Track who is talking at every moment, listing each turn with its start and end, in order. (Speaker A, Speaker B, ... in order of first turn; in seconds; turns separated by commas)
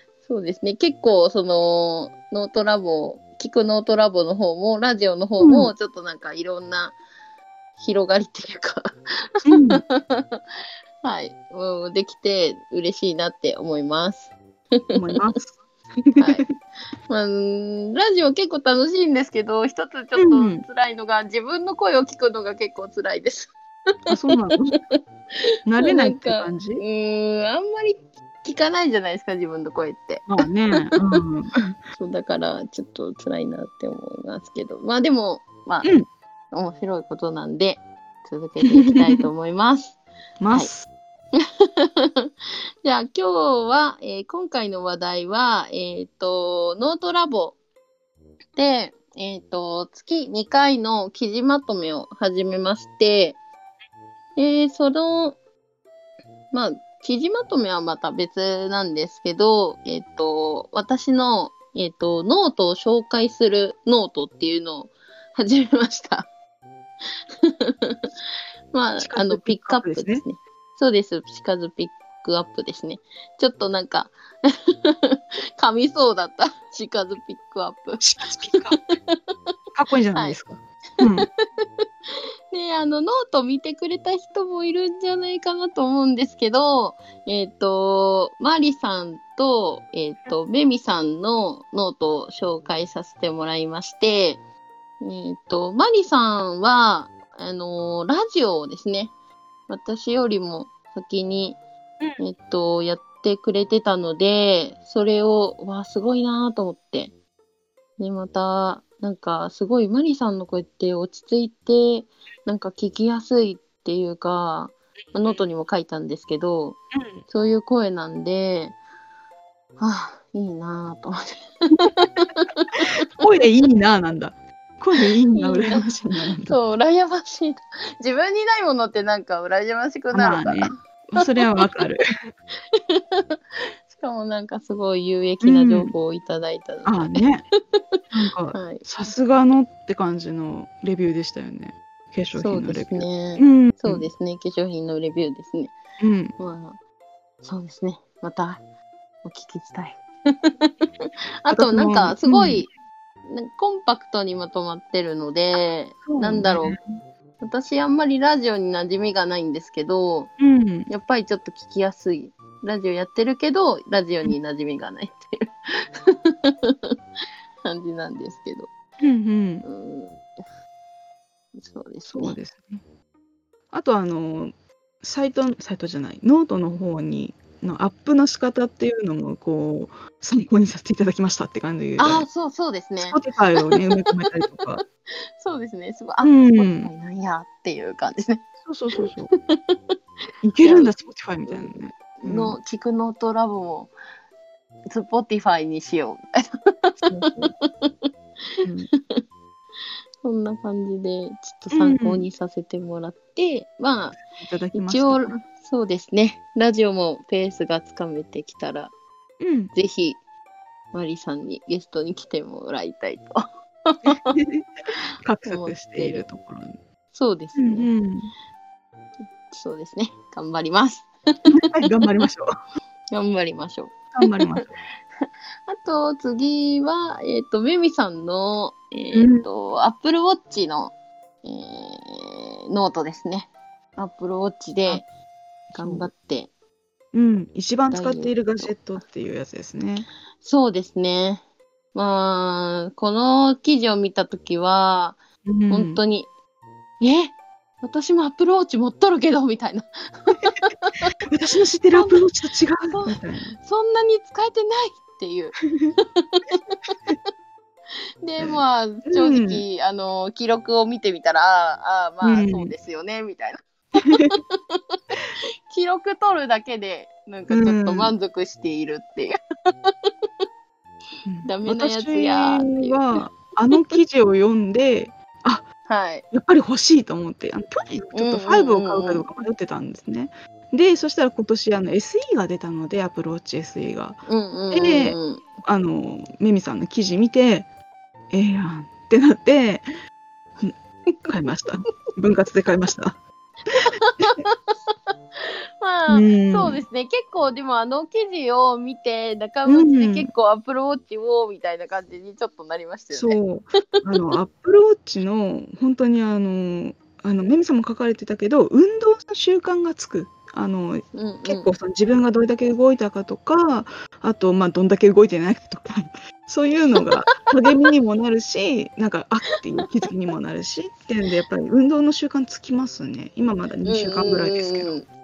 Speaker A: 0.2-7.0, Speaker B: 5.4-5.7, Speaker A: 7.8-8.9, Speaker B: 9.5-9.8, Speaker A: 9.5-10.4, Speaker A: 11.0-14.9, Speaker B: 14.9-16.5, Speaker A: 16.2-16.5, Speaker A: 17.1-23.5, Speaker B: 20.2-20.6, Speaker B: 24.1-24.8, Speaker B: 25.7-26.8, Speaker A: 25.8-30.3, Speaker B: 30.3-31.8, Speaker A: 30.9-31.2, Speaker A: 31.9-35.9, Speaker A: 36.5-40.0, Speaker B: 40.4-40.9, Speaker A: 41.4-41.9, Speaker A: 42.8-47.6, Speaker A: 48.6-53.4, Speaker A: 54.4-55.4, Speaker A: 56.5-66.3, Speaker A: 67.4-68.1, Speaker A: 68.7-74.2, Speaker B: 69.0-70.2, Speaker A: 74.7-78.0, Speaker B: 78.0-78.8, Speaker A: 78.8-79.2, Speaker B: 79.8-81.3, Speaker A: 82.5-94.4, Speaker A: 95.0-99.1, Speaker A: 99.7-101.6, Speaker A: 102.2-107.1, Speaker A: 108.0-118.8, Speaker A: 119.8-123.0, Speaker B: 123.2-126.6, Speaker A: 125.4-125.8, Speaker A: 126.5-131.7, Speaker B: 130.1-132.0, Speaker A: 132.7-133.4, Speaker A: 133.9-138.0, Speaker B: 135.4-135.9, Speaker B: 136.9-137.5, Speaker B: 138.1-144.1, Speaker A: 138.5-139.1, Speaker A: 142.3-145.8, Speaker B: 146.0-146.4, Speaker A: 146.4-146.8, Speaker A: 147.4-148.6, Speaker A: 149.2-150.9, Speaker A: 151.4-152.7, Speaker B: 151.5-152.6, Speaker A: 153.3-156.8, Speaker B: 156.1-156.8, Speaker A: 157.4-160.3, Speaker B: 160.4-160.9, Speaker A: 160.9-165.3, Speaker A: 165.9-167.0, Speaker A: 167.7-168.7, Speaker B: 169.0-169.7, Speaker A: 169.6-170.3, Speaker A: 171.6-172.4, Speaker B: 172.1-172.8, Speaker B: 173.7-182.3, Speaker A: 182.0-184.2, Speaker B: 183.0-184.8, Speaker A: 185.4-188.4, Speaker B: 186.2-186.9, Speaker B: 188.7-189.3, Speaker A: 189.0-190.0, Speaker B: 190.4-192.6, Speaker A: 190.6-190.9, Speaker A: 191.5-193.9, Speaker A: 194.9-198.1, Speaker B: 197.1-197.5, Speaker B: 198.6-198.9, Speaker A: 200.2-204.2, Speaker B: 201.7-202.3, Speaker B: 204.2-205.4, Speaker A: 204.7-208.9, Speaker B: 209.4-209.7, Speaker A: 209.7-210.2, Speaker A: 210.9-214.3, Speaker B: 214.1-214.7, Speaker B: 215.2-216.8, Speaker A: 215.4-216.3, Speaker A: 217.1-217.9, Speaker B: 217.6-218.3, Speaker A: 219.5-221.1, Speaker B: 221.5-222.5, Speaker A: 223.1-224.5, Speaker B: 224.2-224.7, Speaker A: 225.7-235.1, Speaker B: 229.1-229.5, Speaker B: 235.7-236.1, Speaker A: 235.7-236.5, Speaker B: 237.1-240.1, Speaker A: 237.9-238.8, Speaker A: 240.4-241.4, Speaker A: 241.9-246.3, Speaker B: 245.4-246.0, Speaker A: 247.0-251.1, Speaker B: 251.3-253.5, Speaker A: 251.9-252.2, Speaker A: 252.9-256.9, Speaker A: 258.2-270.1, Speaker B: 258.4-259.6, Speaker B: 262.2-262.7, Speaker B: 267.5-268.1, Speaker B: 271.3-275.7, Speaker A: 271.4-273.2, Speaker A: 275.9-276.3, Speaker B: 276.3-287.7, Speaker A: 278.1-279.4, Speaker A: 284.3-285.4, Speaker B: 288.3-289.9, Speaker B: 291.2-293.2, Speaker A: 294.0-294.7, Speaker A: 295.8-303.4, Speaker B: 296.1-296.8, Speaker B: 299.7-300.3, Speaker B: 303.1-324.9, Speaker A: 311.1-311.7, Speaker A: 323.9-325.1